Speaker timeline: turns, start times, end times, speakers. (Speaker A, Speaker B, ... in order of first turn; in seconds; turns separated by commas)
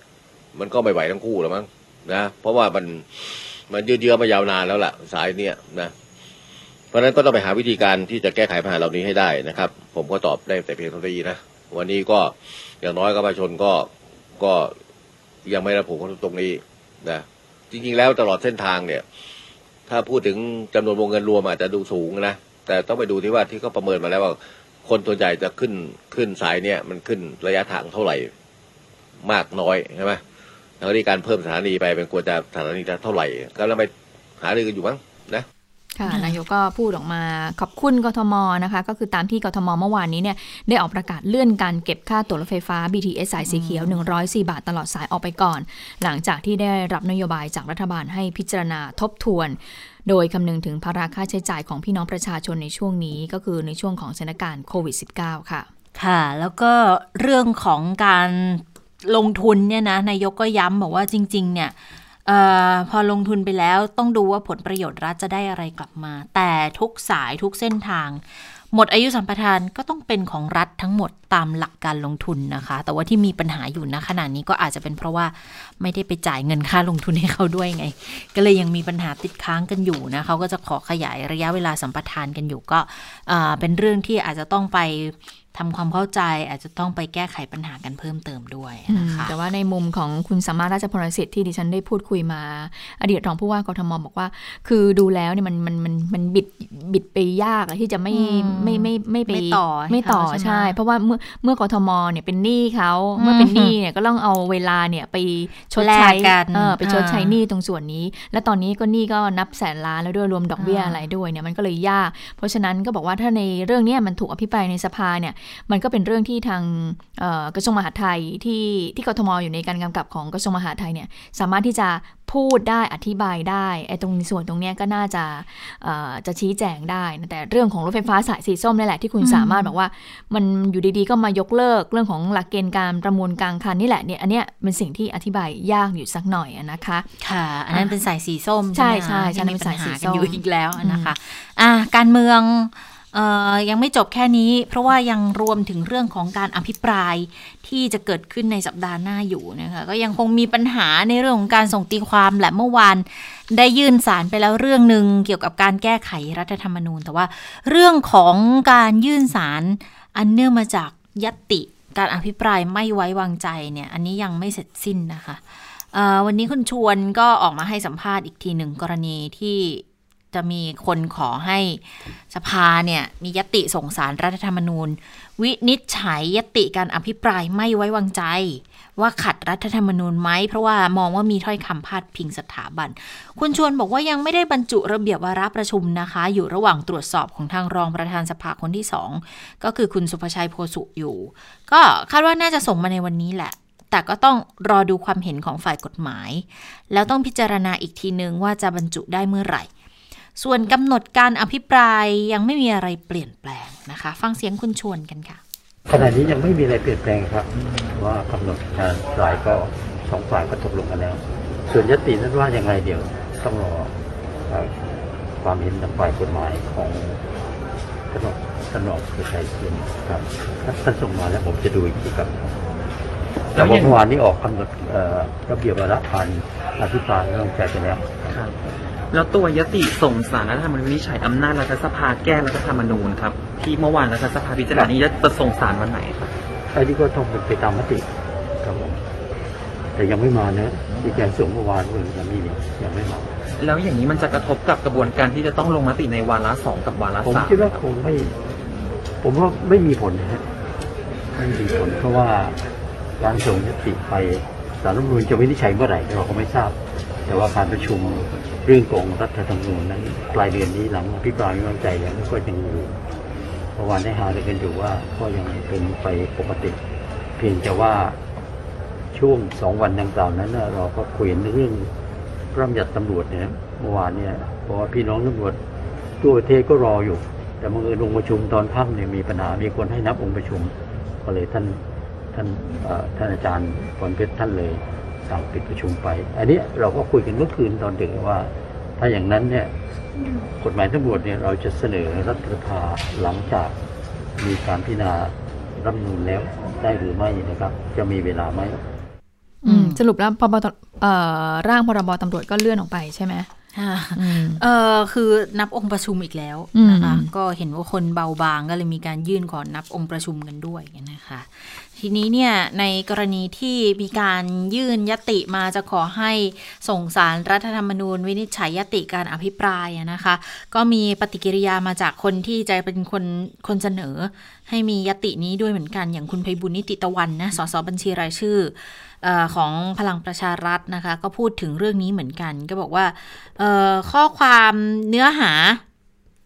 Speaker A: 0.6-5.9, Speaker A: 6.9-14.7, Speaker A: 15.5-19.1, Speaker A: 19.9-28.3, Speaker A: 29.2-30.2, Speaker A: 30.8-35.5, Speaker B: 36.0-55.7, Speaker C: 36.1-36.4, Speaker C: 43.4-44.0, Speaker C: 56.0-89.3, Speaker B: 88.9-137.1, Speaker C: 98.1-100.8, Speaker C: 103.2-103.8, Speaker C: 105.8-107.4, Speaker C: 110.6-111.0, Speaker C: 129.2-129.7, Speaker C: 137.2-199.7, Speaker B: 138.7-141.1, Speaker C: 200.4-205.4, Speaker D: 205.9-214.0, Speaker D: 214.5-214.8, Speaker D: 215.4-217.3, Speaker D: 218.1-222.7, Speaker E: 223.6-224.0, Speaker D: 223.6-228.1, Speaker E: 228.3-228.6, Speaker E: 229.1-236.3, Speaker D: 234.7-235.0, Speaker D: 236.7-238.1, Speaker D: 238.6-239.0, Speaker D: 239.9-243.3, Speaker E: 243.6-247.8, Speaker D: 247.2-248.4, Speaker D: 249.2-250.5, Speaker D: 251.3-252.6, Speaker D: 253.2-263.0, Speaker D: 263.8-266.8, Speaker D: 267.4-268.2, Speaker D: 269.1-271.9, Speaker D: 272.5-275.6, Speaker D: 276.2-281.8, Speaker D: 282.3-289.7, Speaker D: 290.6-293.8, Speaker D: 294.4-298.8, Speaker B: 299.6-303.5, Speaker C: 299.7-300.0, Speaker C: 303.8-335.8, Speaker B: 304.1-304.6, Speaker B: 306.8-307.3